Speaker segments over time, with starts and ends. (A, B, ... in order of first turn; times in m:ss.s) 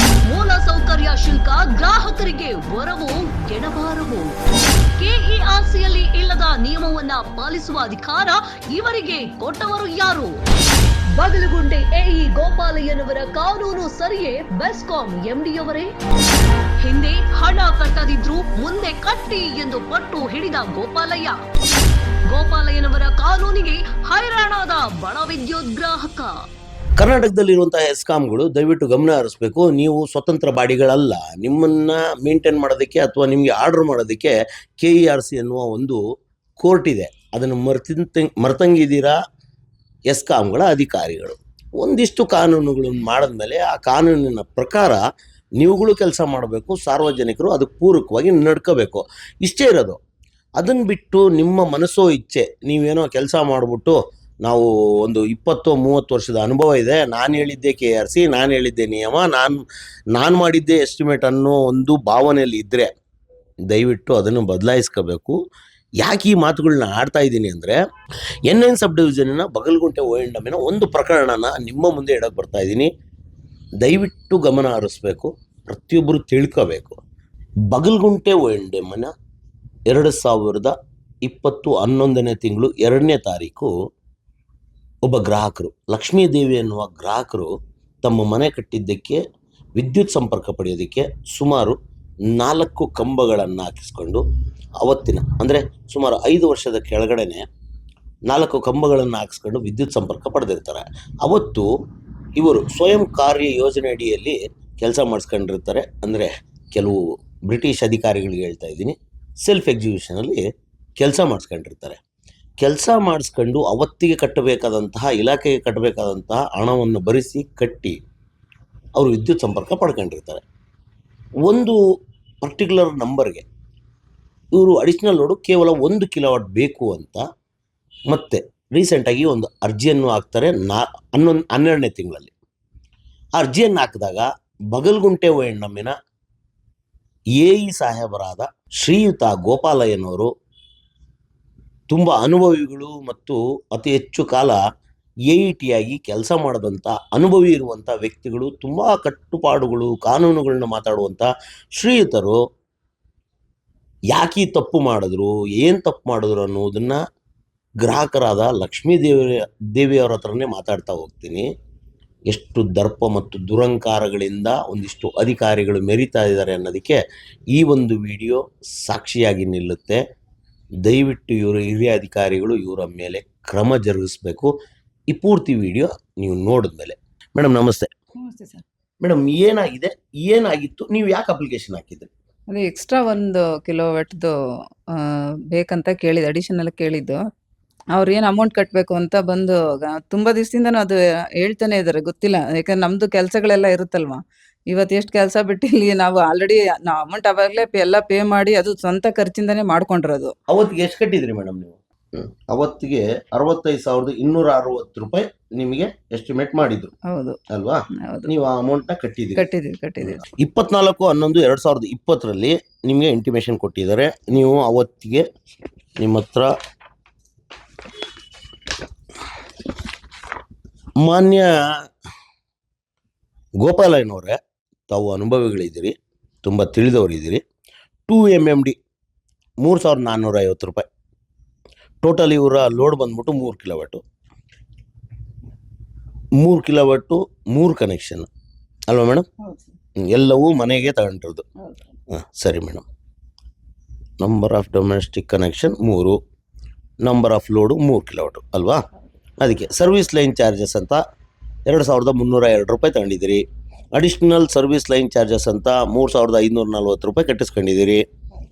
0:00.2-0:04.3 A
0:05.0-0:10.4 A
0:11.1-0:15.9 A
0:16.8-0:21.4 A
0:22.3-0:26.4 A
0:27.0-0:36.0 B
0:36.6-0:39.2 B
0:40.1-0:45.0 B
0:45.6-0:50.0 B
0:50.6-0:59.6 B
1:00.2-1:02.9 B
1:03.7-1:05.4 B
1:06.0-1:07.8 B
1:08.5-1:12.9 B
1:13.8-1:17.0 B
1:17.7-1:19.1 B
1:19.9-1:20.7 B
1:21.2-1:23.7 B
1:25.0-1:27.5 B
1:28.0-1:29.2 B
1:29.8-1:31.8 B
1:32.3-1:34.2 B
1:34.8-1:37.4 B
1:38.3-1:41.7 B
1:42.4-1:50.4 B
1:51.0-1:52.0 B
1:52.6-1:58.0 B
1:59.0-2:00.4 B
2:01.5-2:01.8 B
2:02.4-2:03.4 B
2:04.5-2:07.2 B
2:08.1-2:12.3 B
2:13.4-2:15.9 B
2:17.4-2:20.3 B
2:21.9-2:24.6 B
2:25.3-2:32.4 B
2:34.1-2:37.0 B
2:37.8-2:41.5 B
2:42.3-2:47.0 B
2:47.5-2:50.0 B
2:50.9-2:54.5 B
2:55.1-2:57.9 B
2:58.2-2:58.6 C
2:59.0-3:02.1 B
3:02.5-3:04.4 C
3:04.9-3:07.2 C
3:08.0-3:20.4 C
3:20.5-3:26.9 B
3:27.1-3:27.4 C
3:27.5-3:29.5 B
3:28.0-3:28.4 C
3:29.4-3:30.2 C
3:30.1-3:35.3 B
3:36.0-3:36.5 B
3:41.0-3:41.6 B
3:43.6-3:44.4 B
3:44.9-3:47.4 B
3:48.1-3:48.8 B
3:49.6-3:50.8 B
3:52.0-3:54.0 B
3:56.4-3:58.3 B
3:58.9-3:59.3 B
4:00.0-4:01.4 B
4:02.1-4:02.8 B
4:04.2-4:06.2 B
4:07.0-4:08.8 B
4:09.4-4:11.0 B
4:11.7-4:13.4 B
4:14.0-4:18.0 B